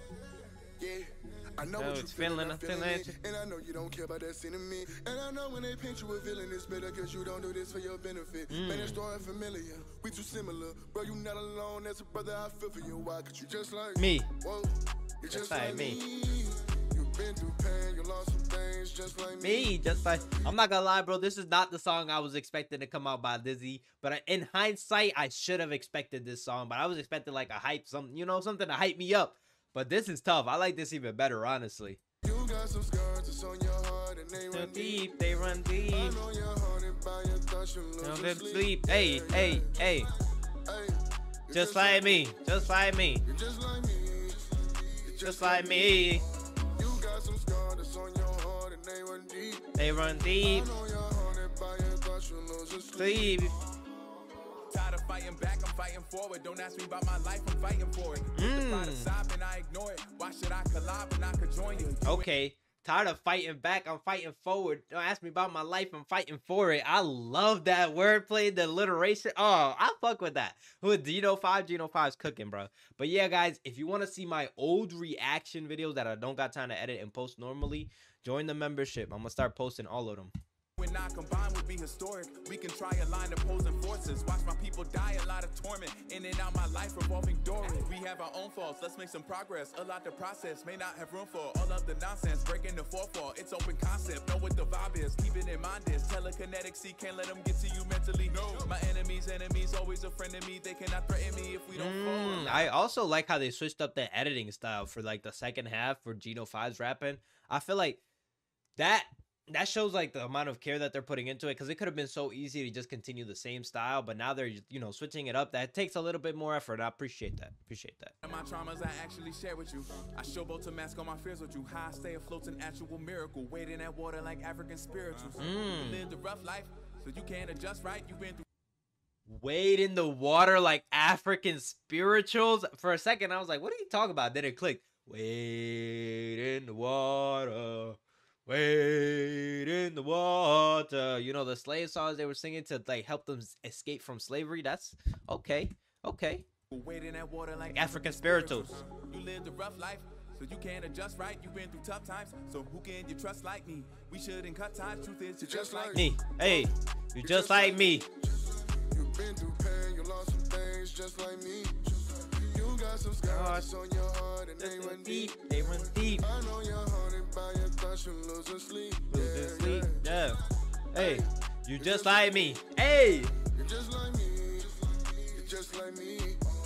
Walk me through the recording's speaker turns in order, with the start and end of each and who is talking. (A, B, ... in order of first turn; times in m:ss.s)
0:00.8-0:20.0 A
0:01.8-0:03.1 B
0:08.5-0:09.0 B
0:14.0-0:14.3 B
0:15.3-0:16.0 B
0:19.4-0:32.0 B
0:32.2-0:35.1 A
0:34.5-0:36.2 B
0:35.9-0:40.1 A
0:38.0-0:40.1 B
0:40.6-0:42.3 A
0:41.5-0:43.2 B
0:43.2-0:49.8 A
0:45.2-0:46.2 B
0:49.8-0:50.7 B
0:50.4-0:53.5 A
0:52.9-0:53.6 B
0:54.7-1:02.3 C
0:58.3-0:59.1 B
1:02.0-1:20.3 B
1:20.8-1:42.7 C
1:41.7-1:48.0 B
1:48.8-1:58.1 B
1:58.2-2:08.4 C
2:05.4-2:06.0 B
2:09.3-2:26.4 B
2:26.7-2:36.1 C
2:27.7-2:28.8 B
2:35.4-2:36.7 A
2:35.9-2:38.0 B
2:37.2-2:50.3 A
2:43.3-2:43.7 B
2:44.6-2:46.3 B
2:49.1-2:50.4 B
2:50.9-2:53.3 B
2:50.9-2:52.5 A
2:53.5-2:56.4 A